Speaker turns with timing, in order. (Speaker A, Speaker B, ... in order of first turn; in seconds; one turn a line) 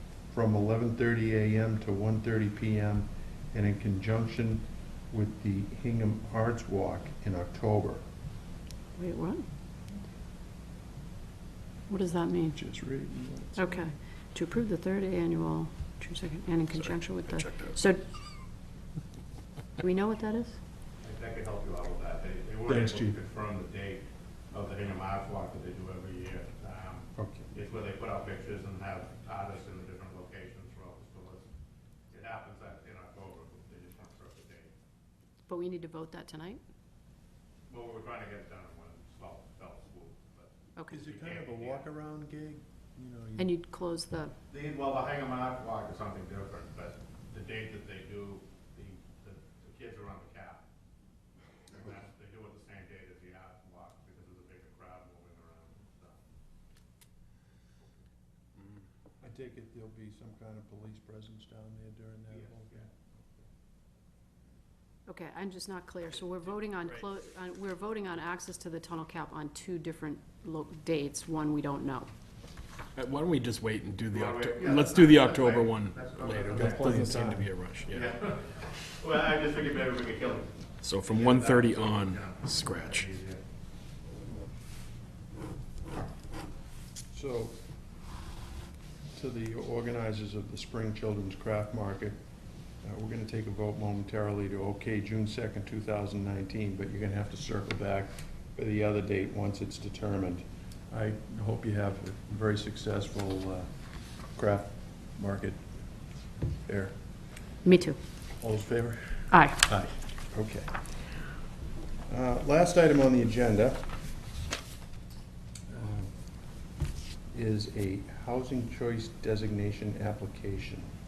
Speaker A: 0.3-8.0
Speaker B: 9.0-9.5
Speaker B: 11.9-12.6
Speaker A: 12.5-13.8
Speaker B: 13.6-18.0
Speaker C: 17.4-17.8
Speaker B: 19.8-20.6
Speaker D: 21.0-31.4
Speaker C: 22.7-23.1
Speaker A: 27.1-27.5
Speaker D: 32.1-34.7
Speaker B: 35.5-36.6
Speaker D: 37.7-41.9
Speaker A: 40.9-43.5
Speaker B: 43.4-44.3
Speaker D: 44.5-50.6
Speaker D: 51.7-56.2
Speaker A: 59.2-63.4
Speaker B: 65.1-72.1
Speaker C: 73.0-78.1
Speaker D: 74.1-77.0
Speaker A: 76.5-77.5
Speaker D: 77.9-83.4
Speaker C: 80.8-83.1
Speaker A: 87.1-87.6
Speaker A: 89.1-92.2
Speaker A: 92.8-103.7
Speaker A: 104.3-105.7
Speaker A: 106.7-106.9
Speaker B: 107.6-108.0
Speaker A: 108.4-110.7
Speaker B: 109.3-109.6
Speaker A: 112.1-113.9
Speaker A: 115.7-116.1
Speaker A: 117.3-120.9